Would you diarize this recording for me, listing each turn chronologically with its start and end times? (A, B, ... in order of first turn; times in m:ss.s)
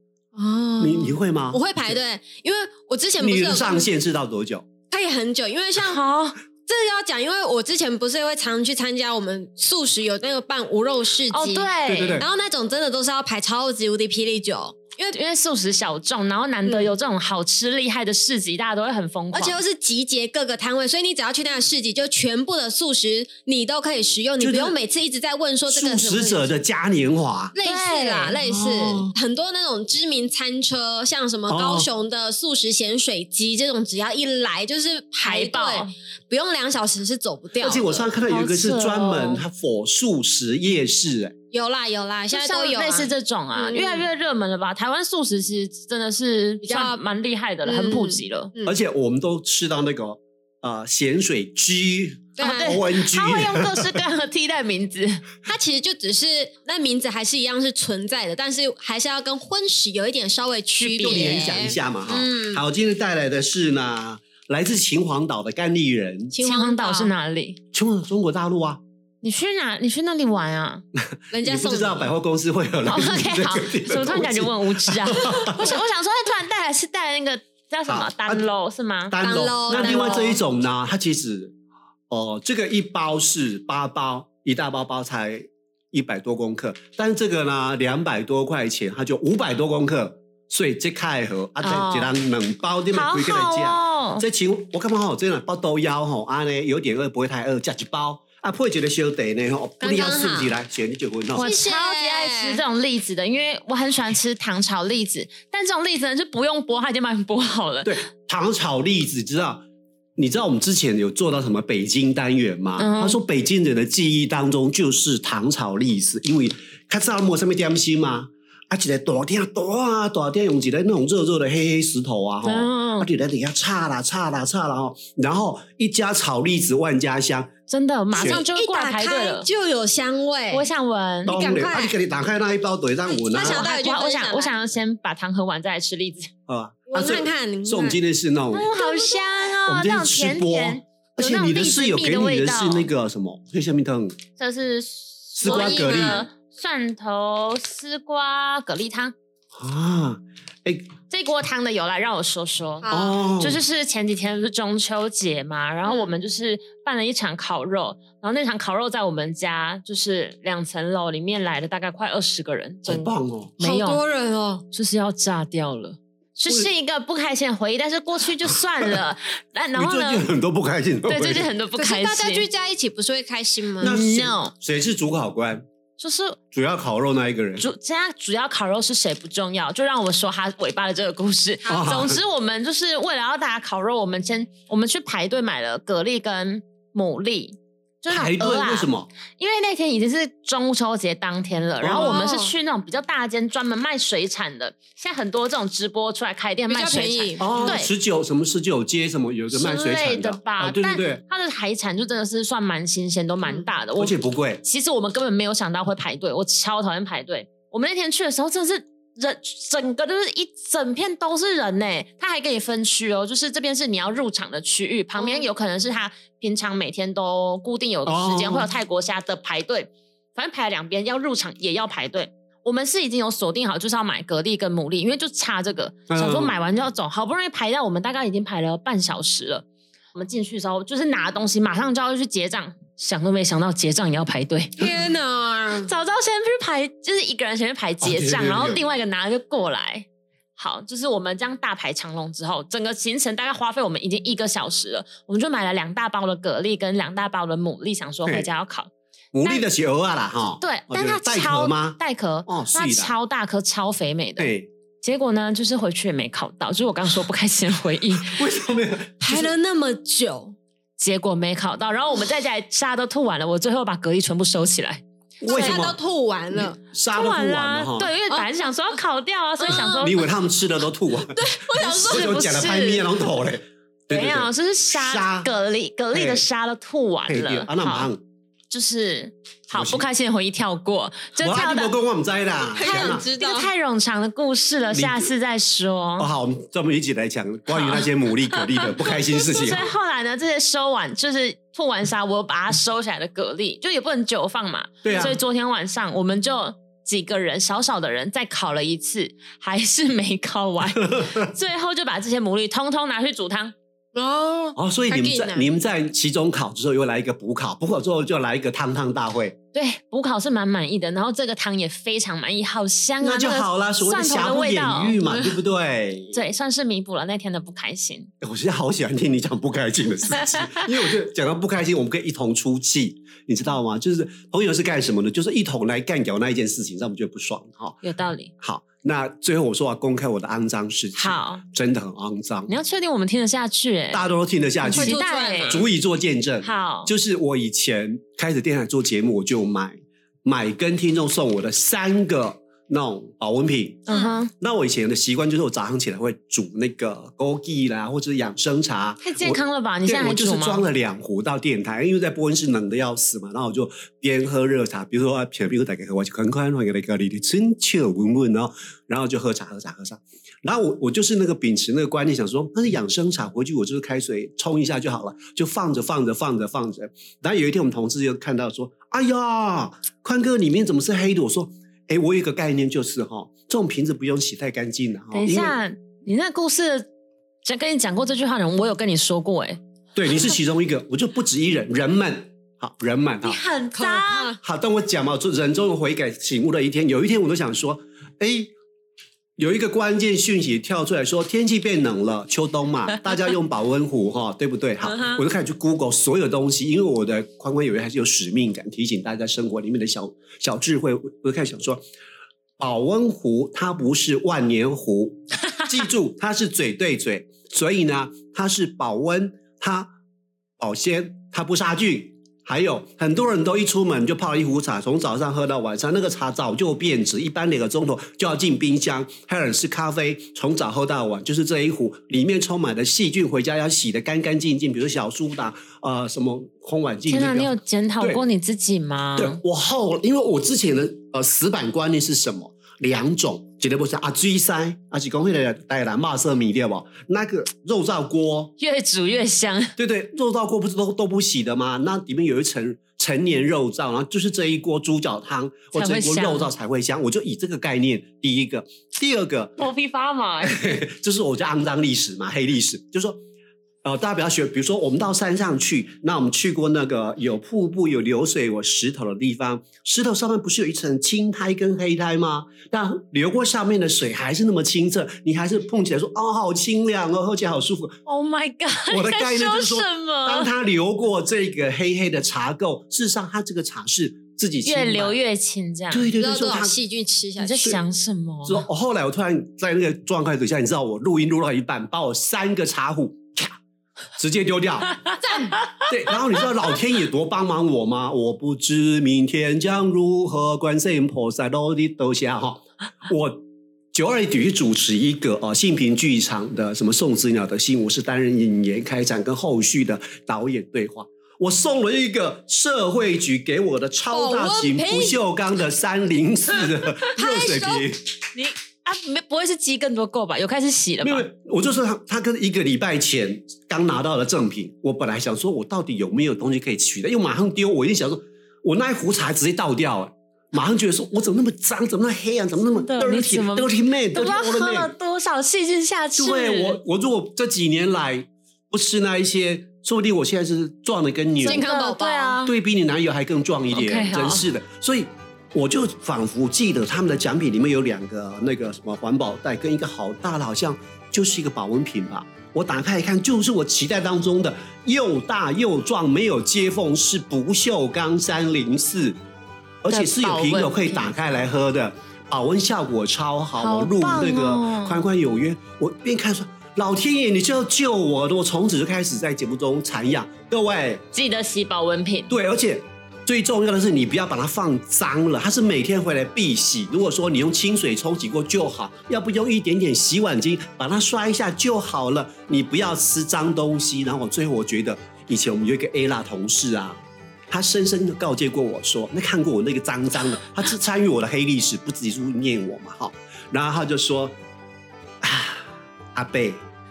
0:00.4-0:03.9 A
0:00.8-0:02.0 B
0:03.2-0:04.7 B
0:04.9-0:06.0 A
0:05.8-0:06.4 C
0:06.6-0:15.2 A
0:11.3-0:12.2 C
0:11.9-0:12.2 B
0:15.1-0:19.6 C
0:16.6-0:16.9 A
0:19.3-0:26.5 A
0:24.4-0:24.8 B
0:25.7-0:27.6 B
0:27.5-0:38.2 A
0:27.6-0:28.4 C
0:28.4-0:29.1 B
0:31.5-0:31.9 B
0:35.2-0:35.9 C
0:37.6-0:41.3 B
0:38.2-0:39.4 C
0:41.5-0:44.1 A
0:42.3-0:48.5 C
0:46.6-0:47.0 A
0:47.6-0:48.8 A
0:48.6-0:53.9 B
0:52.4-0:52.8 A
0:52.4-0:55.2 C
0:55.4-1:02.6 A
1:00.8-1:06.3 B
1:06.3-1:07.1 A
1:06.4-1:07.6 C
1:07.7-1:08.8 B
1:09.2-1:10.8 C
1:11.0-1:15.8 B
1:11.3-1:12.1 A
1:12.9-1:19.2 C
1:17.9-1:18.4 B
1:19.1-1:21.5 B
1:19.2-1:20.4 A
1:19.7-1:20.2 C
1:22.1-1:41.5 B
1:31.6-1:32.2 C
1:32.9-1:34.2 C
1:39.8-1:40.6 A
1:41.3-1:48.0 C
1:41.4-1:42.6 A
1:47.8-1:49.6 B
1:50.2-2:07.5 B
1:52.8-1:53.2 C
2:02.4-2:03.1 C
2:07.7-2:09.4 C
2:08.1-2:10.7 A
2:08.2-2:08.4 B
2:10.5-2:11.4 C
2:11.2-2:12.0 A
2:11.3-2:13.6 B
2:13.2-2:14.6 A
2:13.4-2:16.3 C
2:16.5-2:18.7 B
2:16.9-2:18.0 A
2:18.5-2:22.9 C
2:18.7-2:19.5 A
2:19.7-2:24.2 B
2:24.4-2:29.2 C
2:25.4-2:26.3 B
2:25.4-2:26.3 A
2:29.6-2:30.9 B
2:31.1-2:44.0 C
2:32.8-2:33.2 A
2:32.9-2:33.6 B
2:42.8-2:43.6 B
2:43.6-2:44.6 A
2:44.7-2:50.3 C
2:48.4-2:49.0 B
2:49.7-2:51.5 B
2:51.0-2:52.5 C
2:51.8-2:53.9 A
2:53.8-2:55.6 B
2:53.8-2:54.5 C
2:56.0-2:56.4 C
2:56.5-2:57.7 B
2:57.6-3:17.9 C
3:01.7-3:02.2 B
3:08.1-3:09.1 B
3:11.8-3:12.2 B
3:11.9-3:12.5 A
3:16.7-3:17.8 A
3:17.4-3:21.2 B
3:19.5-3:54.9 C
3:23.9-3:24.6 B
3:35.2-3:35.5 A
3:38.1-3:38.7 B
3:46.1-3:46.5 B
3:54.8-3:55.9 A
3:55.8-4:00.1 C
3:58.0-3:58.8 B
4:00.6-4:08.9 C
4:09.3-4:13.2 B
4:10.6-4:18.4 C
4:14.4-4:14.7 B
4:18.1-4:19.5 B
4:19.2-4:20.6 A
4:21.0-4:25.0 C
4:25.4-4:26.0 B
4:25.4-4:26.8 A
4:26.5-4:28.2 B
4:27.1-4:30.2 C
4:29.6-4:30.2 A
4:29.7-4:35.5 B
4:31.3-4:32.3 A
4:31.8-4:33.1 C
4:34.1-4:38.1 C
4:36.1-4:36.4 B
4:37.3-4:38.2 B
4:38.7-4:41.9 C
4:39.7-4:40.1 B
4:41.4-4:43.2 B
4:42.6-4:43.7 A
4:42.8-4:46.3 C
4:44.9-4:45.3 B
4:46.2-4:49.9 B
4:47.7-5:03.7 C
4:55.0-4:55.4 B
5:04.2-5:05.7 A
5:04.8-5:09.6 B
5:09.7-5:15.2 C
5:13.2-5:16.4 B
5:16.3-5:18.3 C
5:18.4-5:28.0 B
5:20.3-5:20.9 C
5:28.0-5:28.5 C
5:28.6-5:32.8 B
5:31.1-5:31.6 C
5:32.7-5:34.2 C
5:34.1-5:44.1 B
5:34.8-5:35.9 C
5:34.9-5:35.9 A
5:36.6-5:37.1 C
5:44.1-5:44.5 C
5:44.1-5:44.4 A
5:44.6-6:15.8 B
5:49.2-5:50.9 C
6:15.3-6:17.1 C
6:17.6-6:19.8 C
6:20.2-6:23.6 B
6:23.4-6:24.6 C
6:23.9-6:24.6 A
6:24.6-6:28.7 B
6:29.6-6:42.0 B
6:35.1-6:35.4 C
6:42.8-6:50.1 B
6:50.8-7:08.4 B
7:07.3-7:09.6 C
7:09.4-7:18.7 B
7:18.8-7:19.9 C
7:20.0-7:29.8 B
7:25.9-7:26.7 C
7:29.8-7:31.0 C
7:30.6-7:33.4 B
7:34.0-7:48.2 B
7:48.3-7:50.7 C
7:49.1-7:55.4 B
7:54.8-7:56.3 C
7:56.1-7:57.0 B
7:56.4-7:58.0 A
7:57.6-7:58.8 C
7:58.7-8:03.8 B
8:04.4-8:05.2 B
8:05.4-8:05.8 A
8:05.6-8:06.1 C
8:06.1-8:13.6 B
8:14.1-8:28.2 B
8:24.3-8:25.4 A
8:27.4-8:28.1 A
8:28.5-8:31.5 C
8:31.2-8:45.1 B
8:42.9-8:47.0 C
8:46.4-8:51.8 B
8:51.6-8:52.6 A
8:51.6-8:52.7 C
8:52.6-9:09.4 B
8:53.9-8:54.6 C
9:10.0-9:21.2 B
9:10.1-9:11.3 C
9:13.8-9:15.2 C
9:21.3-9:22.6 C
9:22.5-9:37.2 B
9:37.7-9:44.6 B
9:45.4-9:46.8 B